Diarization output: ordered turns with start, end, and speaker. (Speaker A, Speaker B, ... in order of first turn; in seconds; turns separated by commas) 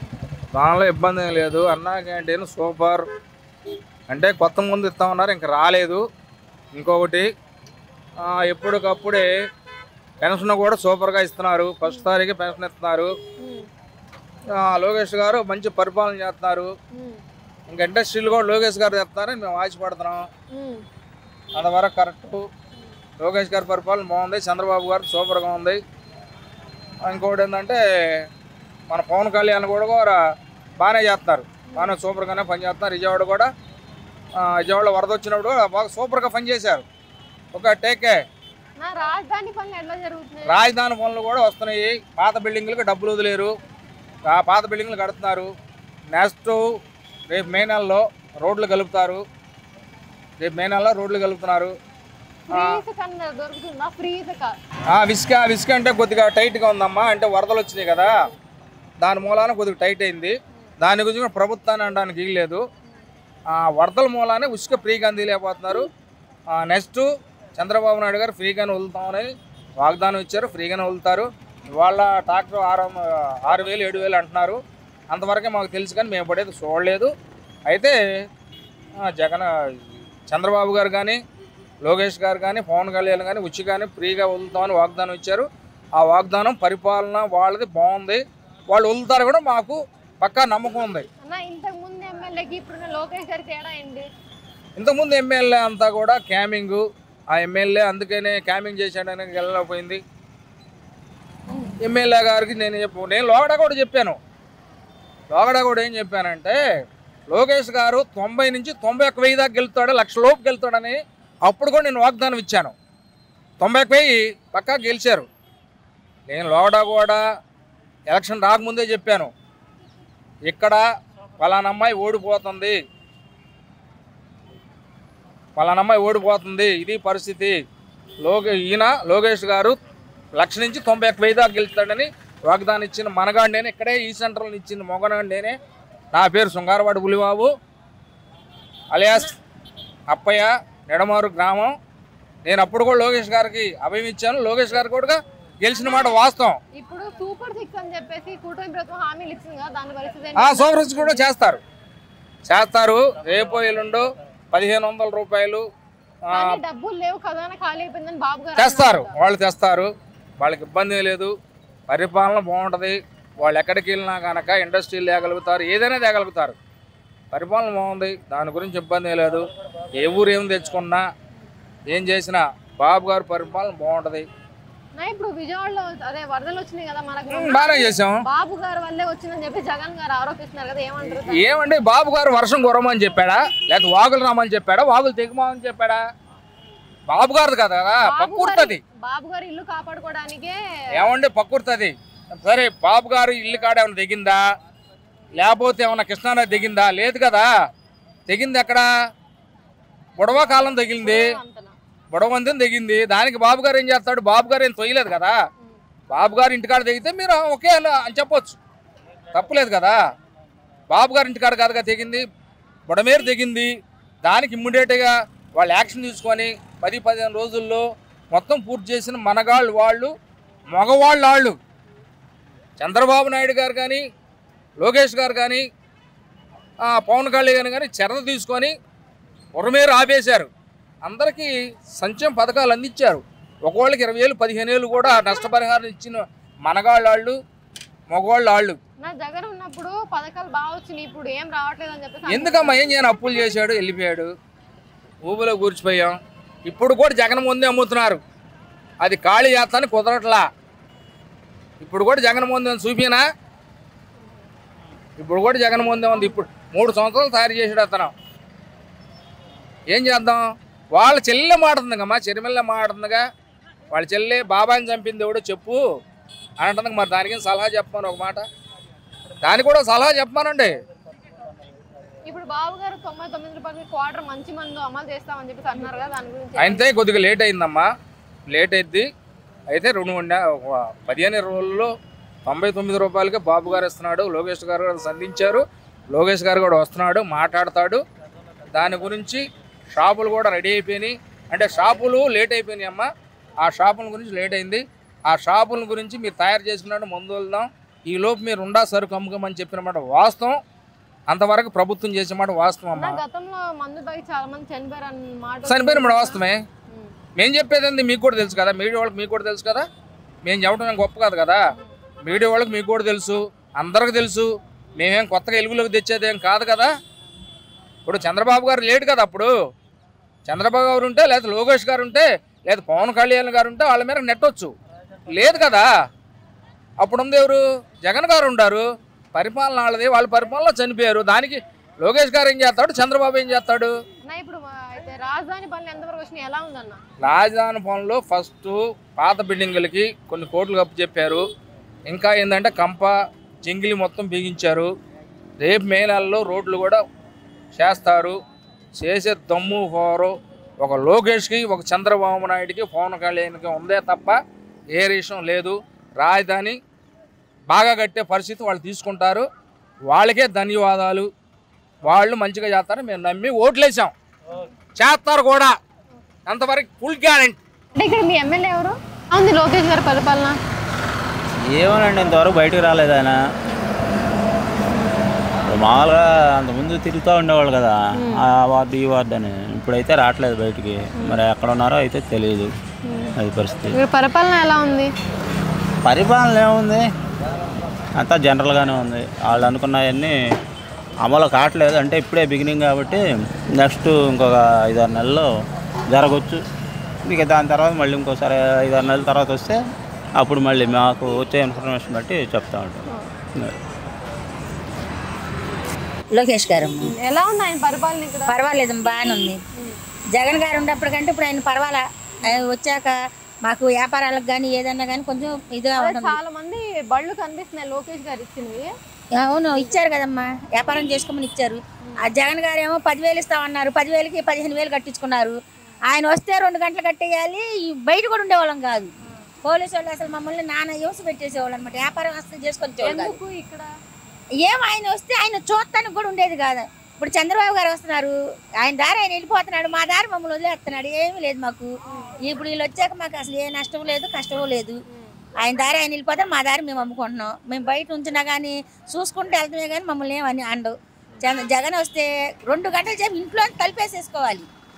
Speaker A: 0.6-3.0, Speaker A: 4.1-6.0, Speaker A: 6.7-7.3, Speaker A: 8.2-9.3, Speaker A: 10.2-13.1, Speaker B: 13.4-13.7, Speaker A: 14.6-16.7, Speaker B: 16.9-17.2, Speaker A: 17.7-20.2, Speaker B: 20.5-20.8, Speaker A: 21.6-22.4, Speaker A: 23.2-25.8, Speaker A: 27.1-27.8, Speaker A: 28.9-30.2, Speaker A: 30.8-33.5, Speaker B: 31.7-31.9, Speaker A: 34.4-36.8, Speaker A: 37.5-38.2, Speaker B: 38.8-40.6, Speaker A: 40.5-43.5, Speaker A: 44.3-45.5, Speaker A: 46.1-46.6, Speaker A: 47.3-49.2, Speaker A: 50.4-51.7, Speaker B: 52.5-54.5, Speaker A: 52.5-52.8, Speaker A: 54.9-58.1, Speaker A: 59.0-62.6, Speaker A: 63.5-65.9, Speaker A: 66.5-69.3, Speaker A: 69.8-74.6, Speaker A: 75.1-77.1, Speaker A: 77.7-78.0, Speaker A: 79.1-79.5, Speaker A: 80.3-81.2, Speaker A: 81.8-85.5, Speaker A: 86.0-91.1, Speaker B: 91.2-94.0, Speaker A: 94.8-100.0, Speaker A: 101.8-104.2, Speaker A: 105.3-106.6, Speaker A: 107.3-112.7, Speaker A: 113.6-115.3, Speaker A: 116.3-117.2, Speaker A: 118.1-119.3, Speaker A: 120.5-120.8, Speaker A: 121.4-122.8, Speaker A: 125.6-127.5, Speaker A: 128.2-129.8, Speaker A: 130.4-135.6, Speaker A: 136.1-137.5, Speaker A: 138.9-139.3, Speaker A: 140.1-141.7, Speaker A: 142.4-146.6, Speaker B: 145.8-146.2, Speaker B: 146.8-151.2, Speaker A: 150.4-151.6, Speaker A: 152.5-155.6, Speaker B: 156.3-159.1, Speaker A: 158.6-159.9, Speaker A: 160.4-161.3, Speaker A: 161.9-166.6, Speaker A: 167.3-169.4, Speaker A: 170.0-171.0, Speaker A: 171.9-174.2, Speaker B: 175.0-181.5, Speaker A: 177.3-178.2, Speaker A: 181.2-186.0, Speaker A: 187.1-188.8, Speaker B: 188.1-190.6, Speaker A: 190.9-191.9, Speaker A: 192.4-194.4, Speaker A: 195.4-197.5, Speaker A: 198.3-198.9, Speaker A: 200.2-201.2, Speaker B: 201.0-201.8, Speaker A: 202.1-205.3, Speaker A: 206.1-208.6, Speaker A: 209.3-210.0, Speaker A: 210.9-212.2, Speaker A: 212.9-213.7, Speaker A: 214.2-220.1, Speaker A: 220.7-221.6, Speaker A: 222.8-224.0, Speaker A: 224.8-225.6, Speaker A: 226.9-228.7, Speaker A: 229.6-230.5, Speaker A: 231.1-237.4, Speaker A: 238.1-238.8, Speaker B: 239.0-242.9, Speaker A: 242.3-244.3, Speaker A: 245.2-246.2, Speaker A: 246.7-248.2, Speaker A: 249.0-250.4, Speaker A: 251.8-253.2, Speaker A: 255.2-258.1, Speaker A: 259.9-260.4, Speaker A: 260.9-263.2, Speaker A: 263.9-265.8, Speaker A: 266.6-268.4, Speaker A: 269.4-270.7, Speaker B: 272.3-276.9, Speaker A: 276.6-277.9, Speaker A: 278.5-279.1, Speaker A: 279.7-280.4, Speaker A: 281.0-281.9, Speaker A: 282.4-288.0, Speaker A: 288.7-289.4, Speaker A: 289.9-293.1, Speaker A: 293.6-300.6, Speaker A: 301.3-303.2, Speaker B: 303.0-306.4, Speaker A: 305.7-306.6, Speaker A: 307.4-309.8, Speaker A: 310.4-311.6, Speaker A: 312.2-314.4, Speaker A: 315.0-316.9, Speaker A: 318.0-319.5, Speaker A: 320.4-324.7, Speaker A: 325.3-325.9, Speaker A: 327.0-328.8, Speaker A: 329.3-333.9, Speaker B: 334.2-337.0, Speaker A: 337.2-341.4, Speaker A: 342.1-344.9, Speaker A: 345.6-347.0, Speaker A: 347.8-348.4, Speaker A: 349.0-354.4, Speaker A: 354.9-356.8, Speaker A: 357.7-359.4, Speaker A: 360.1-361.3, Speaker A: 362.1-364.1, Speaker A: 365.0-365.8, Speaker A: 366.5-367.6, Speaker B: 367.9-370.6, Speaker C: 371.7-373.4, Speaker C: 375.7-382.7, Speaker B: 378.2-378.4, Speaker B: 383.1-383.3, Speaker C: 383.4-384.0, Speaker B: 383.9-385.1, Speaker C: 386.0-387.0, Speaker C: 388.2-390.3, Speaker C: 391.2-395.5, Speaker C: 396.1-396.6, Speaker C: 397.2-399.8, Speaker C: 400.4-403.0, Speaker D: 406.3-407.1, Speaker B: 407.0-408.5, Speaker D: 408.5-409.6, Speaker D: 410.3-416.4, Speaker B: 416.0-418.9, Speaker D: 419.4-425.6, Speaker B: 419.7-420.0, Speaker D: 426.1-429.1, Speaker D: 429.6-433.4, Speaker B: 433.0-433.9, Speaker D: 434.6-441.9, Speaker B: 442.1-442.3, Speaker D: 442.4-445.0, Speaker B: 445.1-445.4, Speaker D: 445.6-454.7